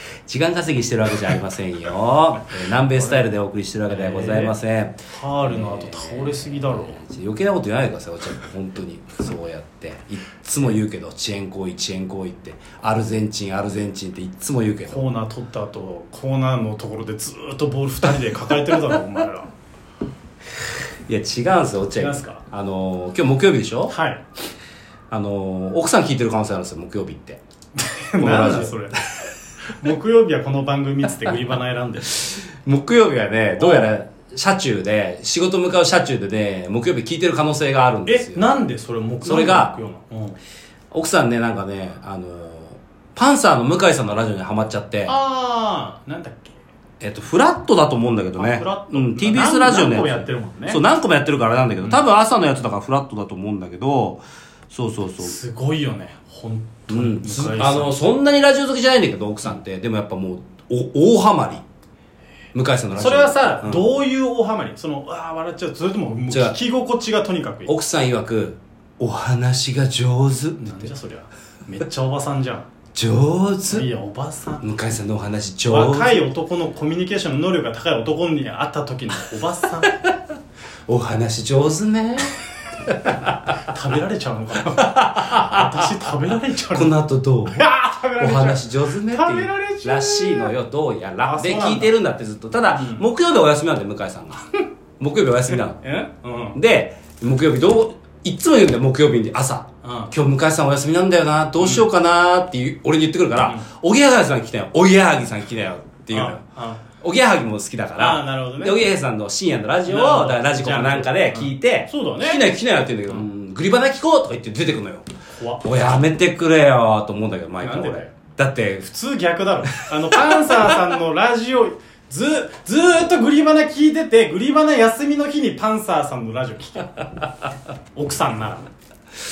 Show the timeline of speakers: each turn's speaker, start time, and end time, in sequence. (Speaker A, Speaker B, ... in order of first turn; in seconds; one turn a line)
Speaker A: 0.2-15.1
Speaker B: 2.9-3.3
Speaker B: 3.9-4.5
Speaker B: 5.1-7.0
Speaker B: 14.8-19.5
Speaker A: 21.1-23.9
Speaker B: 21.9-22.4
Speaker B: 23.9-24.2
Speaker A: 25.1-27.4
Speaker B: 27.8-32.4
Speaker A: 28.2-28.8
Speaker A: 32.2-38.4
Speaker B: 33.6-33.9
Speaker B: 38.0-40.4
Speaker A: 39.2-39.7
Speaker A: 40.9-45.1
Speaker B: 45.0-46.6
Speaker A: 47.0-55.4
Speaker B: 48.4-50.8
Speaker B: 55.2-58.1
Speaker A: 56.9-61.6
Speaker A: 62.5-63.9
Speaker B: 62.9-67.7
Speaker A: 66.3-66.5
Speaker A: 67.7-70.9
Speaker B: 70.6-72.7
Speaker A: 72.9-73.9
Speaker B: 73.7-74.7
Speaker A: 74.6-76.2
Speaker B: 75.7-80.0
Speaker A: 80.9-83.5
Speaker B: 83.6-86.9
Speaker A: 84.9-85.7
Speaker A: 86.7-87.6
Speaker B: 87.5-90.5
Speaker A: 88.2-94.5
Speaker B: 91.2-91.9
Speaker B: 92.7-93.1
Speaker A: 95.0-95.8
Speaker B: 95.8-96.6
Speaker A: 96.5-106.4
Speaker B: 99.8-100.1
Speaker B: 101.6-101.8
Speaker B: 103.4-103.7
Speaker B: 106.1-106.8
Speaker A: 107.0-115.1
Speaker B: 108.0-108.9
Speaker B: 109.8-112.5
Speaker B: 115.3-115.6
Speaker A: 115.6-118.8
Speaker B: 117.6-118.1
Speaker B: 118.8-127.0
Speaker A: 120.1-120.7
Speaker B: 127.9-128.7